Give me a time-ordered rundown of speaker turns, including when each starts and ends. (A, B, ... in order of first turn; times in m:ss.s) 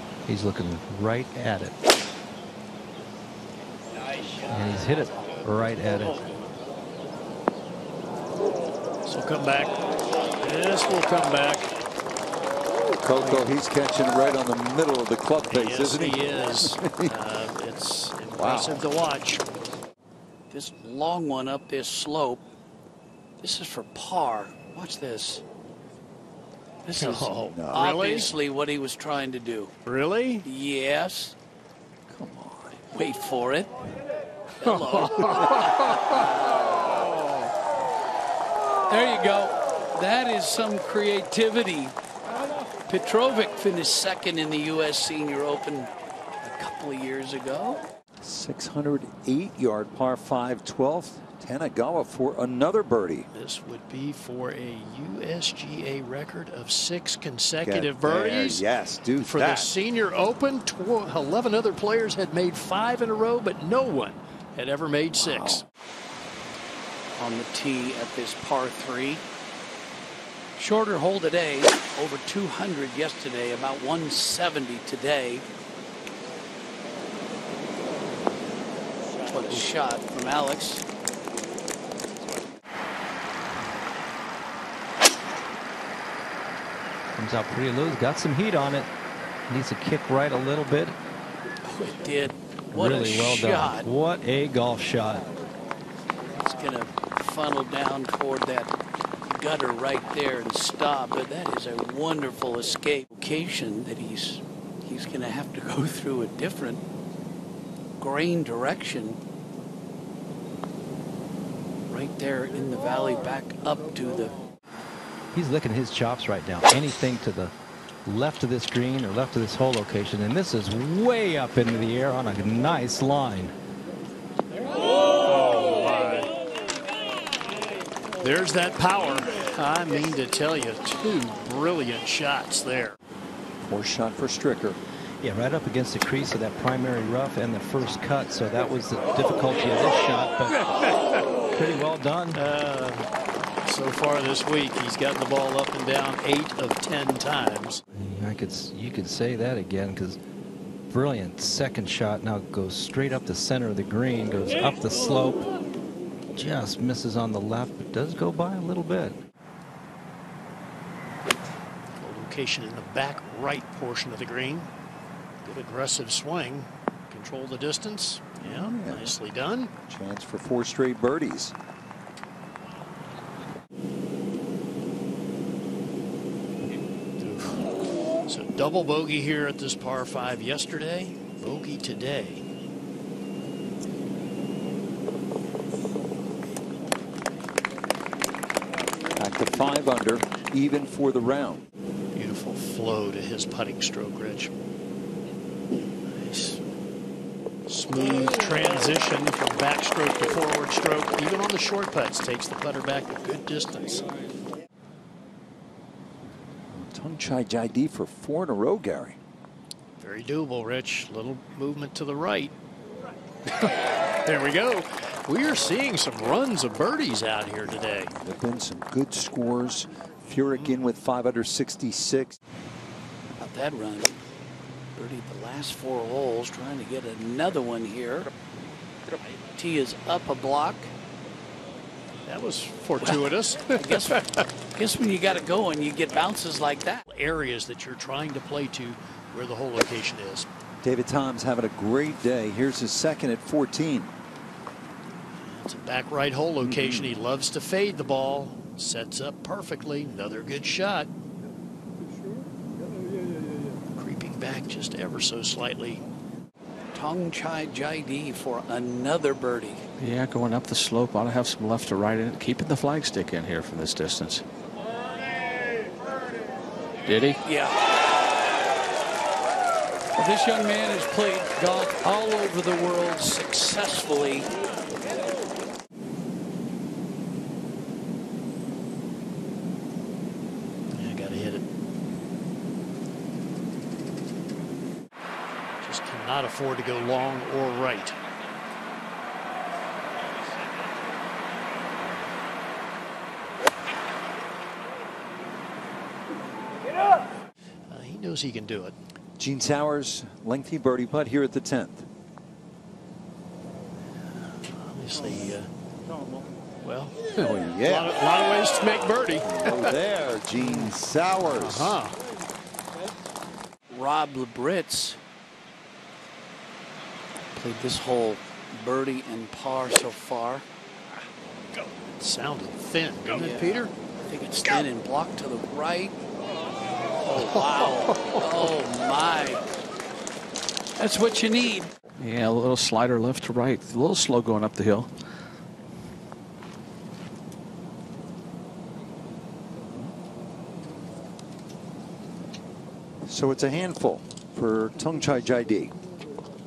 0:00.3-0:01.8 A
0:04.5-0:06.3 A
0:09.1-0:09.7 B
0:10.4-0:11.7 B
0:13.0-0:17.2 C
0:13.2-0:13.5 B
0:15.4-0:19.4 B
0:18.4-0:18.8 C
0:20.5-0:22.4 D
0:23.4-0:25.4 D
0:26.8-0:29.7 D
0:27.0-0:28.3 B
0:27.5-0:28.0 C
0:29.9-0:30.5 B
0:30.4-0:31.4 D
0:32.1-0:32.8 C
0:32.9-0:33.8 D
0:34.6-0:36.9 D
0:34.6-0:36.3 B
0:38.9-0:42.0 D
0:42.9-0:47.8 D
0:48.2-0:53.3 C
0:53.3-0:58.6 B
0:57.6-0:59.7 C
0:59.2-1:05.6 B
1:05.2-1:05.6 C
1:07.2-1:09.2 D
1:10.6-1:15.4 D
1:19.3-1:20.8 D
1:27.2-1:28.9 A
1:29.5-1:31.0 A
1:31.6-1:33.9 D
1:32.7-1:35.3 A
1:36.4-1:38.7 D
1:39.3-1:46.8 D
1:48.0-1:49.2 D
1:51.9-1:54.4 D
1:55.3-1:57.5 A
1:58.1-2:03.5 A
2:05.2-2:06.3 B
2:08.2-2:13.0 B
2:13.6-2:14.8 C
2:15.2-2:20.6 A
2:21.5-2:22.4 A
2:22.3-2:23.1 B
2:23.6-2:27.8 B
2:27.9-2:30.2 A
2:30.9-2:35.5 A
2:36.4-2:39.2 A
2:42.0-2:44.7 B
2:45.4-2:49.7 B
2:48.4-2:49.1 C
2:49.9-2:51.6 C
2:57.2-2:57.7 B
2:58.3-3:02.4 B
3:09.2-3:11.6 C
3:12.1-3:14.5 B
3:16.1-3:16.6 B
3:17.7-3:24.1 B
3:26.7-3:29.2 C
3:30.0-3:32.5 B
3:33.5-3:38.1 B
3:37.6-3:42.4 C
3:43.4-3:44.2 D
3:45.0-3:48.3 D
3:49.5-3:50.9 D
3:52.3-3:54.4 B
3:53.0-3:57.0 D
3:57.1-4:00.5 B
4:00.8-4:04.1 C
4:05.4-4:11.1 B
4:06.6-4:07.2 C
4:14.0-4:16.0 B
4:16.9-4:19.8 D
4:20.0-4:24.4 E
4:27.1-4:27.4 E
4:27.4-4:27.9 D
4:30.2-4:34.5 D
4:40.9-4:41.6 B
4:45.8-4:48.2 B
4:57.9-4:59.0 B
4:59.4-5:02.1 C
5:04.3-5:05.7 B
5:06.8-5:09.9 B
5:07.4-5:08.1 C
5:09.4-5:12.0 C
5:10.6-5:12.1 B
5:13.9-5:15.2 D
5:17.6-5:20.7 D
5:22.2-5:23.9 B
5:23.3-5:23.7 D
5:24.3-5:26.2 D
5:27.2-5:29.6 D
5:27.3-5:28.4 B
5:31.0-5:32.0 D
5:32.2-5:35.1 E
5:43.2-5:45.9 C